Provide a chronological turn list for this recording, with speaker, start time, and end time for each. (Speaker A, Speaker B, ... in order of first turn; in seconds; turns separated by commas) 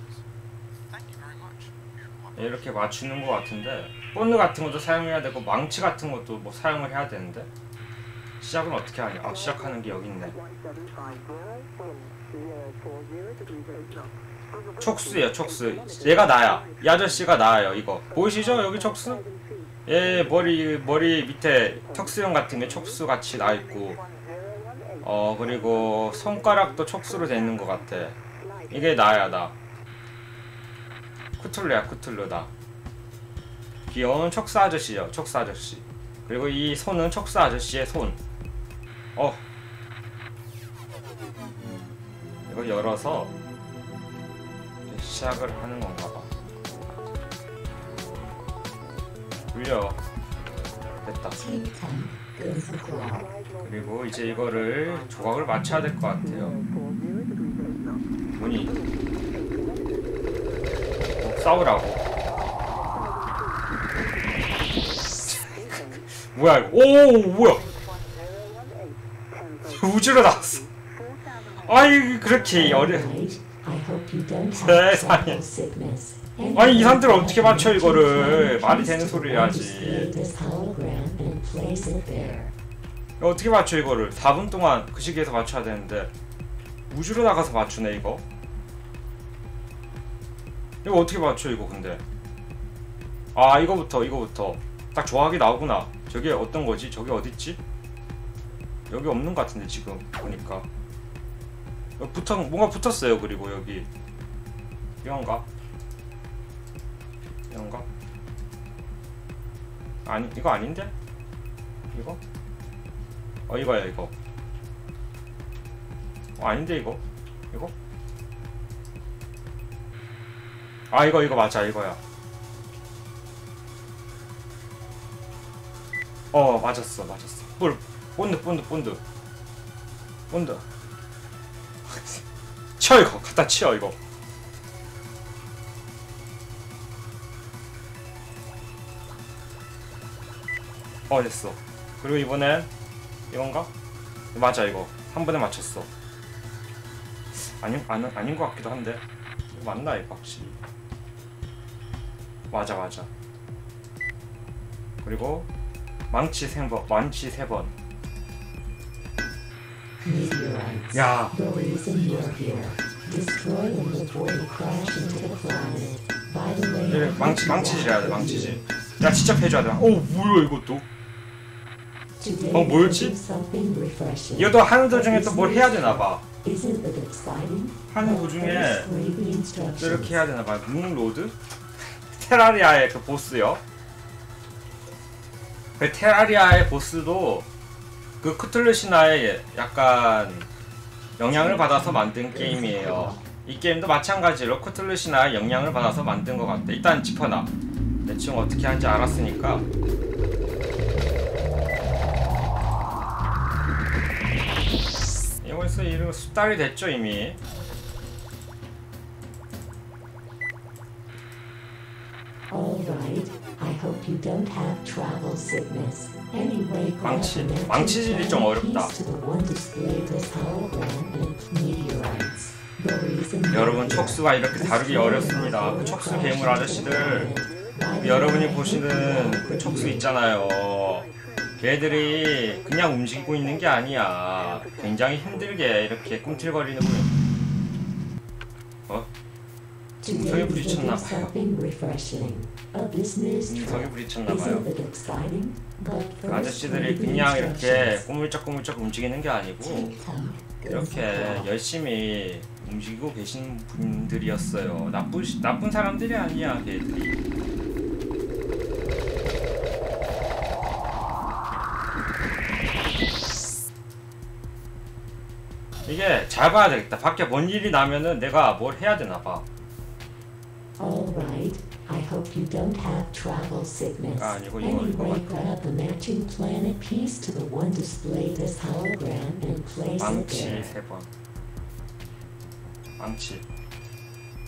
Speaker A: 2.4-7.5, Speaker A: 8.4-10.4, Speaker A: 14.8-19.2, Speaker A: 19.8-24.0, Speaker A: 25.0-28.2, Speaker A: 28.7-29.5, Speaker A: 31.4-32.5, Speaker A: 33.9-38.2, Speaker A: 39.1-39.4, Speaker A: 42.5-43.3, Speaker A: 44.9-46.3, Speaker A: 49.5-50.0, Speaker A: 51.0-51.4, Speaker B: 51.4-53.3, Speaker A: 53.6-56.6, Speaker A: 58.4-58.8, Speaker A: 61.1-62.0, Speaker A: 65.2-67.7, Speaker A: 69.6-70.7, Speaker A: 71.6-73.1, Speaker B: 72.5-82.5, Speaker A: 74.5-75.4, Speaker A: 76.5-80.1, Speaker A: 83.2-86.1, Speaker A: 86.9-88.2, Speaker A: 90.8-92.0, Speaker A: 93.3-97.6, Speaker A: 98.9-100.7, Speaker A: 102.0-103.9, Speaker A: 105.0-105.5, Speaker A: 107.5-107.8, Speaker A: 110.0-110.9, Speaker A: 111.9-112.2, Speaker A: 113.5-114.1, Speaker A: 116.4-117.7, Speaker A: 120.9-122.0, Speaker A: 126.3-129.0, Speaker A: 130.3-130.6, Speaker A: 131.9-132.2, Speaker A: 132.8-133.9, Speaker A: 141.1-142.7, Speaker A: 143.3-143.7, Speaker A: 144.3-145.9, Speaker A: 147.3-150.6, Speaker A: 152.5-153.1, Speaker A: 155.0-155.5, Speaker A: 156.1-157.7, Speaker B: 160.0-168.6, Speaker A: 160.9-161.3, Speaker A: 166.9-170.8, Speaker B: 172.2-180.2, Speaker A: 172.5-173.1, Speaker A: 174.4-176.2, Speaker A: 177.9-178.9, Speaker A: 179.8-181.3, Speaker A: 182.1-183.6, Speaker A: 185.8-187.5, Speaker A: 188.2-190.5, Speaker A: 191.2-197.5, Speaker B: 191.3-193.2, Speaker A: 198.1-199.7, Speaker A: 205.4-207.4, Speaker B: 212.5-230.1, Speaker A: 217.0-218.9, Speaker A: 223.5-227.3, Speaker A: 228.0-237.1, Speaker B: 240.0-248.0, Speaker A: 240.1-241.3, Speaker A: 243.5-244.7, Speaker A: 246.3-249.9, Speaker B: 249.6-251.5, Speaker A: 250.7-257.2, Speaker A: 265.9-269.4, Speaker B: 270.8-280.7, Speaker A: 274.1-275.3, Speaker A: 280.0-281.1, Speaker A: 283.0-283.4